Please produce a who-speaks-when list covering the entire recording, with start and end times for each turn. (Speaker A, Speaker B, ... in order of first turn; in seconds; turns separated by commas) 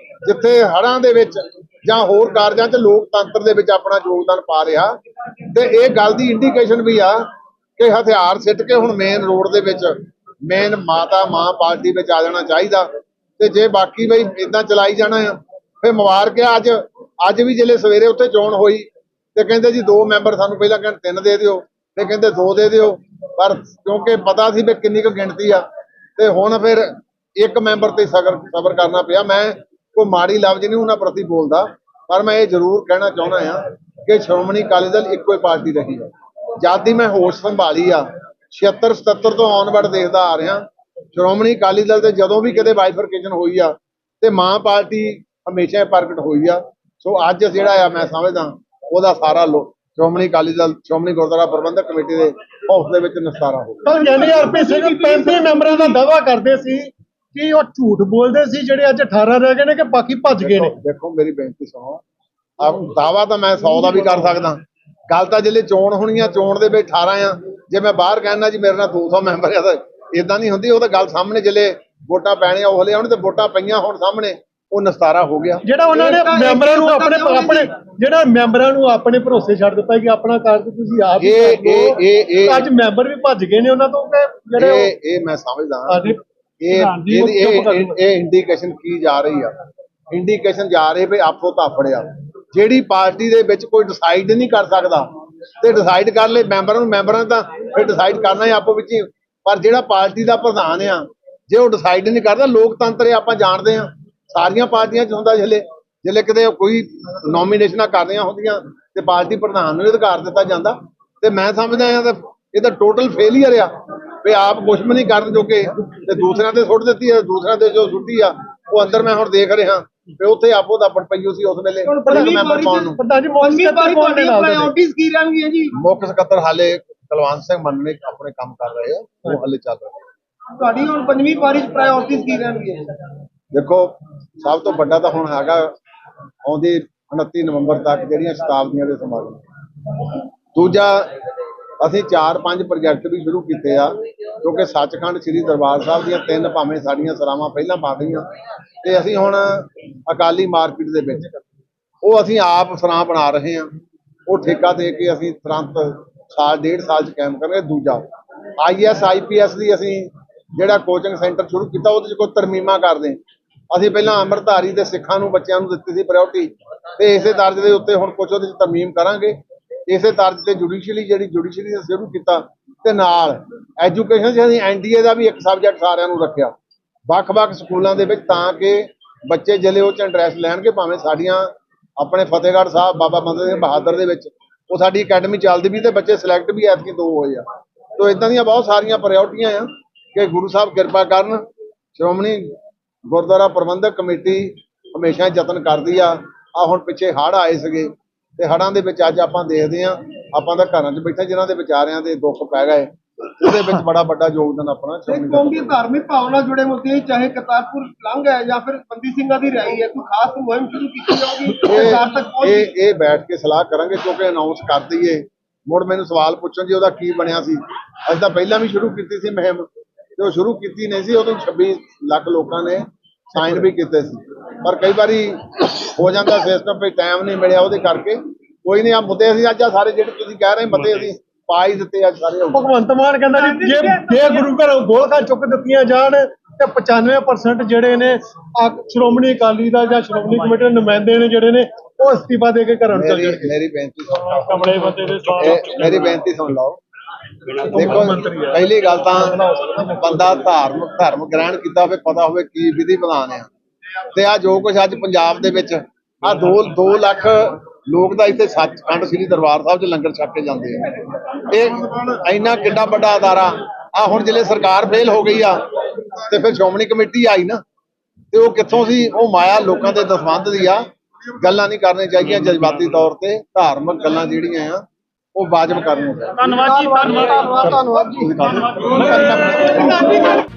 Speaker A: 0.2-25.7, Speaker A: 26.2-53.9, Speaker B: 53.8-60.8, Speaker C: 54.0-55.8, Speaker A: 60.4-62.0, Speaker A: 62.6-75.6, Speaker B: 75.7-84.9, Speaker C: 75.9-77.7, Speaker A: 81.2-82.7, Speaker A: 84.6-89.5, Speaker B: 85.9-88.0, Speaker A: 90.1-95.1, Speaker A: 95.6-113.7, Speaker A: 114.2-123.0, Speaker C: 121.8-125.7, Speaker B: 122.0-124.7, Speaker A: 125.7-130.0, Speaker C: 130.5-132.9, Speaker A: 133.5-135.7, Speaker A: 136.4-139.4, Speaker A: 140.6-141.1, Speaker A: 141.8-148.3, Speaker A: 148.8-151.3, Speaker A: 152.0-153.7, Speaker A: 154.3-163.2, Speaker A: 163.7-176.5, Speaker A: 177.1-187.4, Speaker A: 188.0-205.7, Speaker C: 205.1-212.7, Speaker A: 211.6-232.7, Speaker B: 232.5-243.5, Speaker C: 233.4-234.5, Speaker A: 242.9-244.7, Speaker B: 244.2-246.2, Speaker A: 245.4-246.8, Speaker B: 247.6-248.6, Speaker A: 247.7-249.4, Speaker B: 249.1-250.5, Speaker A: 250.0-253.5, Speaker A: 254.1-260.9, Speaker A: 261.5-267.6, Speaker A: 268.3-270.9, Speaker A: 271.4-276.6, Speaker B: 276.4-277.8, Speaker C: 276.6-278.6, Speaker A: 278.2-279.8, Speaker B: 278.6-280.2